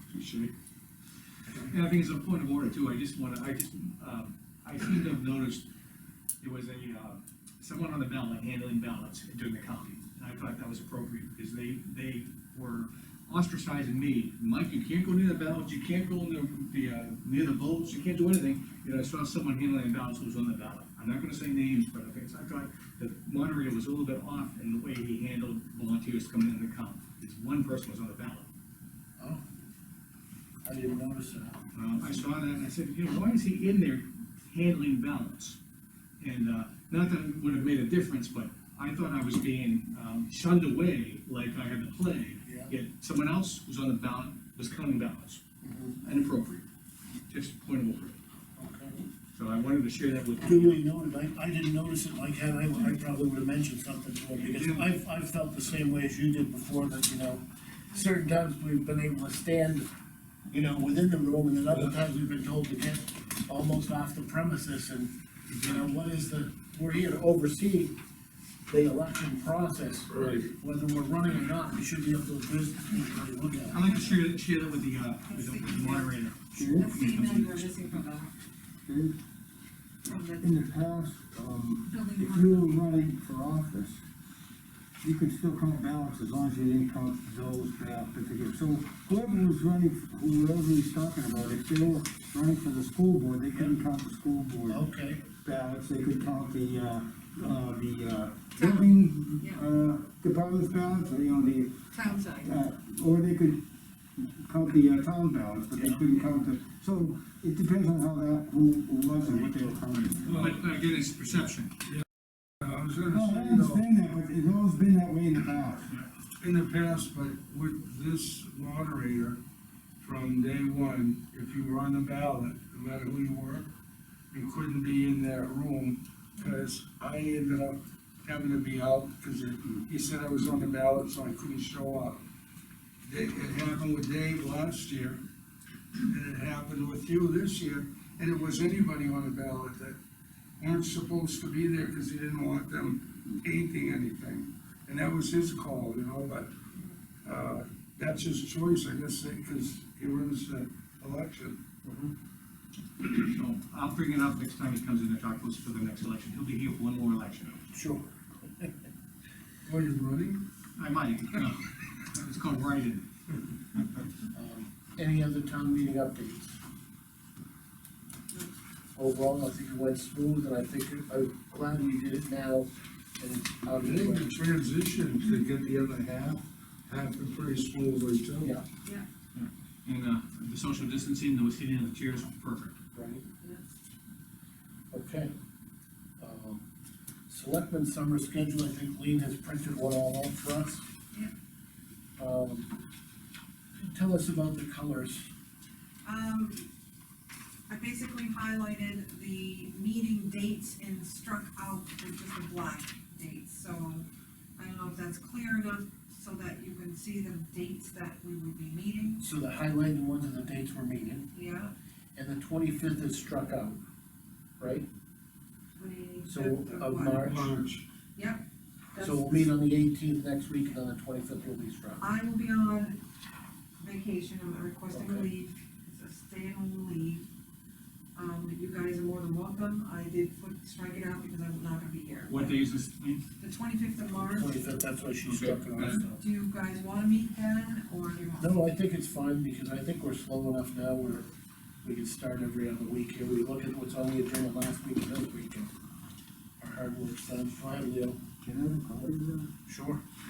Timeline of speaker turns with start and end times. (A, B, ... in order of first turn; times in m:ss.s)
0:01.6-0:05.6 A
0:06.4-0:28.5 A
0:30.6-0:31.6 B
0:31.7-0:35.6 A
0:36.2-0:45.4 A
0:42.4-0:42.7 B
0:45.6-0:46.0 B
0:46.0-0:46.6 A
0:47.3-0:48.2 A
0:48.6-0:49.0 B
0:49.3-0:50.8 A
0:50.4-0:59.9 B
0:54.4-0:54.8 A
1:00.5-1:08.0 B
1:08.7-1:14.2 B
1:10.1-1:10.5 C
1:13.7-1:17.9 A
1:15.3-1:16.2 D
1:16.6-1:17.0 E
1:16.7-1:18.4 D
1:18.8-1:19.2 E
1:20.0-1:20.6 D
1:20.4-1:24.0 E
1:21.9-1:22.8 D
1:25.0-1:41.8 E
1:34.7-1:35.2 B
1:38.6-1:39.6 D
1:41.9-1:42.6 D
1:42.4-1:43.7 E
1:44.2-1:50.5 E
1:45.8-1:46.2 D
1:50.2-1:51.8 A
1:50.2-1:50.6 C
1:52.6-1:53.8 C
1:53.1-1:55.9 E
1:56.4-1:59.4 C
2:00.0-2:03.7 C
2:04.3-2:12.2 C
2:13.0-2:15.2 C
2:16.0-2:20.0 C
2:20.6-2:26.5 C
2:27.2-2:31.6 C
2:31.8-2:32.1 A
2:33.0-2:37.6 A
2:37.7-2:38.0 B
2:39.7-2:40.5 C
2:40.8-2:43.1 A
2:44.3-2:46.6 B
2:49.0-2:54.3 B
2:53.8-2:58.6 C
2:59.4-3:02.8 A
3:02.9-3:03.2 B
3:03.4-3:03.7 D
3:04.9-3:05.3 B
3:06.2-3:06.6 B
3:07.3-3:10.8 B
3:12.2-3:12.7 B
3:13.8-3:15.3 B
3:16.0-3:16.7 D
3:17.7-3:29.2 D
3:29.2-3:31.3 B
3:31.3-3:31.7 D
3:32.2-3:33.8 B
3:34.6-3:34.9 B
3:35.8-3:37.3 D
3:36.3-3:37.6 B
3:37.2-3:37.8 C
3:38.2-3:39.5 D
3:39.0-3:42.0 B
3:42.0-3:43.0 D
3:43.8-3:47.3 D
3:44.9-3:45.3 B
3:48.2-3:52.6 D
3:52.3-3:53.3 A
3:53.4-3:54.5 D
3:54.1-3:56.2 B
3:55.2-3:56.0 A
3:56.2-3:58.6 D
3:58.4-4:01.3 B
4:01.8-4:05.7 B
4:06.6-4:08.2 B
4:08.4-4:09.5 E
4:09.7-4:10.0 B